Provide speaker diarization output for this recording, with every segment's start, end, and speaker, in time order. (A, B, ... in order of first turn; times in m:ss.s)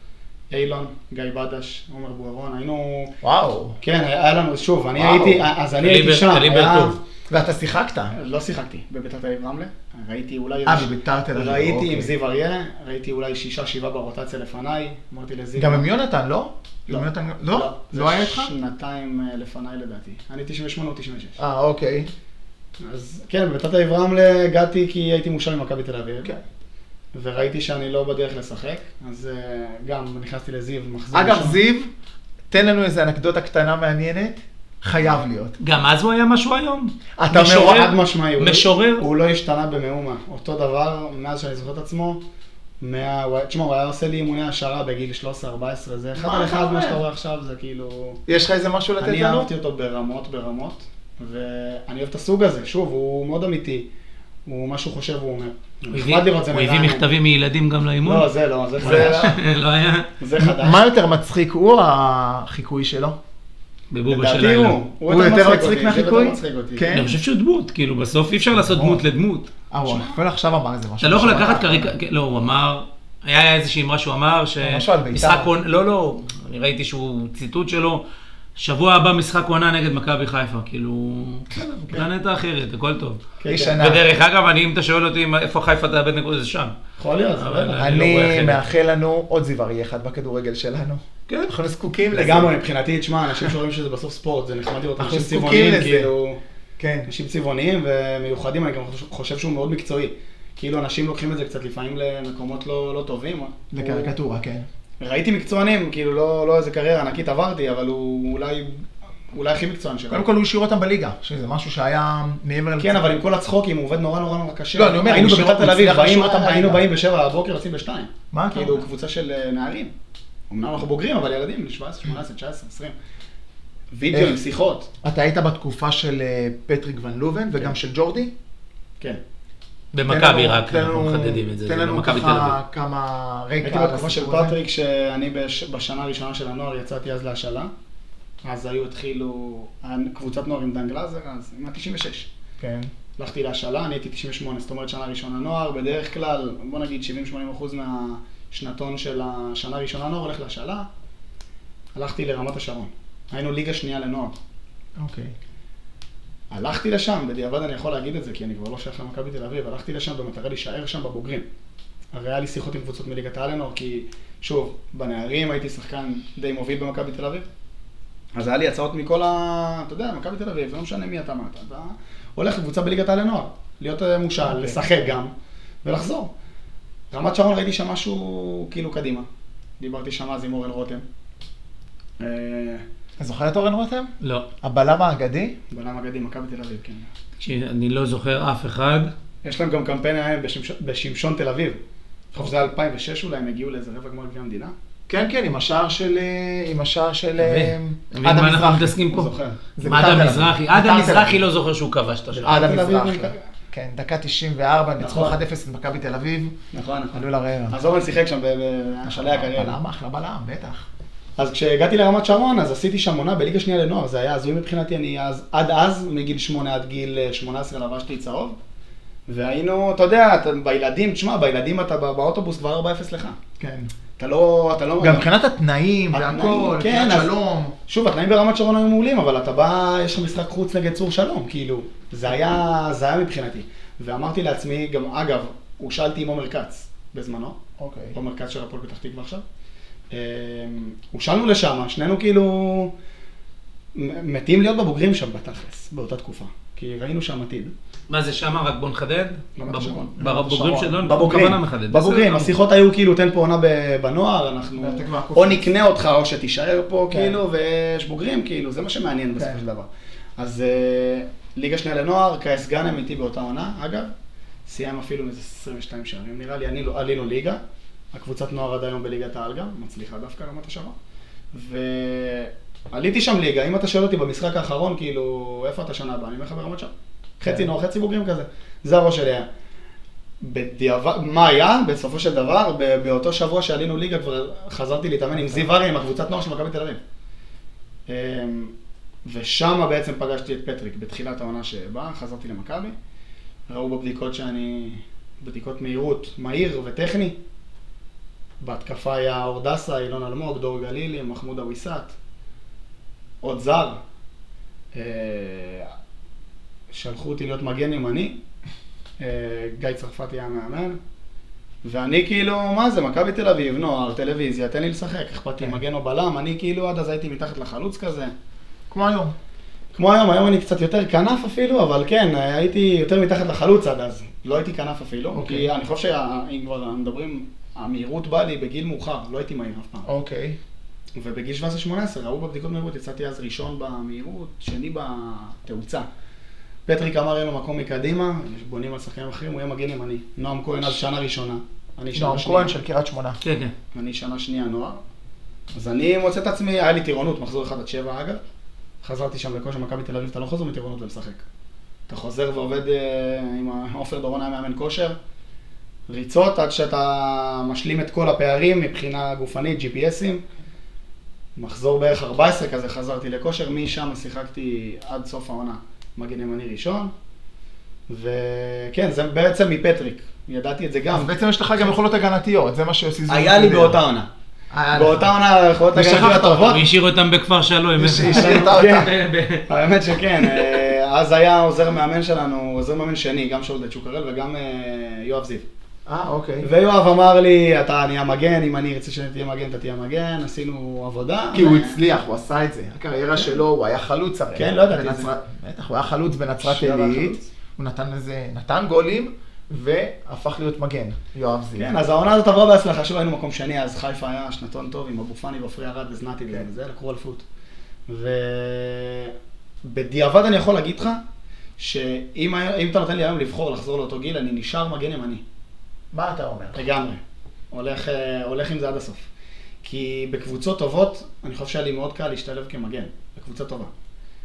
0:00.5-0:03.1 A
0:03.2-0:03.8 B
0:03.8-0:07.0 A
0:05.0-0:05.4 B
0:05.8-0:06.9 C
0:07.3-0:08.1 B
0:08.1-0:15.9 A
0:10.6-0:12.1 B
0:15.6-0:18.5 B
0:16.9-0:21.4 A
0:21.4-0:22.1 B
0:22.8-0:26.3 A
0:27.1-0:31.6 A
0:31.1-0:31.9 B
0:32.5-0:35.6 B
0:35.6-0:37.9 C
0:37.2-0:38.0 B
0:37.3-0:42.2 A
0:38.4-0:39.0 C
0:42.8-0:48.2 A
0:46.2-0:47.0 B
0:48.3-0:49.5 B
0:49.0-0:53.9 A
0:54.4-0:57.0 A
0:55.9-0:58.2 C
0:58.0-0:59.3 A
0:58.8-0:59.4 B
0:58.8-1:00.1 C
1:00.2-1:00.8 A
1:00.4-1:03.2 B
1:03.9-1:04.8 C
1:04.1-1:06.9 A
1:05.1-1:07.2 B
1:06.9-1:09.5 C
1:08.7-1:09.0 A
1:09.7-1:11.9 B
1:09.8-1:10.2 A
1:11.0-1:18.0 C
1:14.6-1:15.5 B
1:18.6-1:23.2 C
1:23.4-1:23.8 A
1:23.5-1:24.0 B
1:23.8-1:26.7 C
1:27.0-1:27.8 A
1:27.4-1:28.6 C
1:27.8-1:32.5 B
1:32.1-1:36.4 A
1:35.0-1:36.1 B
1:36.8-1:37.1 B
1:37.0-1:44.2 A
1:43.7-1:44.7 B
1:45.0-1:50.2 A
1:50.1-1:53.0 B
1:52.8-1:59.9 A
1:54.7-1:56.8 B
1:58.3-1:58.8 B
2:00.5-2:02.9 A
2:03.9-2:04.9 A
2:05.0-2:08.3 B
2:09.9-2:12.6 C
2:10.1-2:14.6 B
2:13.6-2:17.7 A
2:18.4-2:22.3 A
2:22.6-2:22.9 B
2:23.2-2:30.9 A
2:31.9-2:34.4 A
2:35.0-2:35.3 B
2:36.5-2:41.4 A
2:42.1-2:47.5 A
2:48.3-2:55.3 A
2:54.4-2:54.8 B
2:55.8-2:56.3 A
2:57.1-2:59.2 A
2:59.8-3:01.0 A
3:02.2-3:02.8 A
3:03.2-3:04.1 B
3:04.2-3:04.5 C
3:04.6-3:05.6 B
3:05.7-3:07.1 A
3:07.4-3:09.1 C
3:09.4-3:11.8 A
3:12.3-3:14.7 A
3:15.1-3:19.0 B
3:17.4-3:19.3 C
3:19.1-3:19.6 A
3:19.8-3:21.4 B
3:19.8-3:22.6 C
3:22.3-3:23.4 A
3:22.4-3:26.6 B
3:25.0-3:25.4 A
3:26.7-3:29.8 A
3:27.1-3:27.8 B
3:29.0-3:30.8 B
3:31.4-3:38.6 A
3:39.3-3:43.4 A
3:43.6-3:43.9 B
3:44.2-3:45.3 A
3:45.0-3:47.8 B
3:46.1-3:47.3 A
3:47.9-3:57.6 A
3:57.8-3:58.2 B
3:58.1-3:59.4 A
4:00.1-4:02.9 A
4:03.9-4:07.7 A
4:08.1-4:12.5 C
4:09.6-4:10.1 A
4:10.2-4:10.9 B
4:10.9-4:24.1 A
4:14.8-4:15.7 B
4:17.1-4:17.4 B
4:24.6-4:27.6 A
4:28.1-4:30.9 A
4:31.5-4:39.5 A
4:40.4-4:47.0 A
4:48.1-4:48.7 A
4:49.2-4:52.9 A
4:53.7-4:57.4 A
4:58.6-5:02.1 A
5:03.4-5:04.0 A
5:04.9-5:05.9 A
5:06.9-5:08.4 A
5:09.2-5:11.0 A
5:11.8-5:18.3 A
5:18.9-5:19.3 B
5:19.9-5:30.1 A
5:25.3-5:25.7 B
5:30.0-5:30.6 B
5:31.2-5:36.0 A
5:36.9-5:42.8 A
5:42.1-5:43.4 B
5:43.4-5:43.7 C
5:43.9-5:45.0 A
5:45.7-5:48.4 A
5:49.0-5:51.4 A
5:52.1-5:55.2 A
5:56.1-6:00.4 A
6:01.6-6:07.1 A
6:08.1-6:12.0 A
6:11.1-6:14.0 B
6:13.3-6:14.3 A
6:14.7-6:15.3 B
6:14.9-6:16.8 A
6:15.9-6:16.8 B
6:16.6-6:19.7 C
6:18.0-6:19.1 B
6:18.2-6:19.1 A
6:19.7-6:25.6 A
6:20.3-6:20.8 C
6:26.0-6:26.7 B
6:26.6-6:32.0 A
6:31.5-6:41.9 B
6:34.5-6:35.3 A
6:36.6-6:37.5 A
6:41.8-6:47.4 A
6:48.1-6:51.2 A
6:51.8-6:55.4 A
6:56.1-6:56.8 B
6:56.7-6:57.2 A
6:57.7-6:59.2 A
6:59.8-7:03.9 A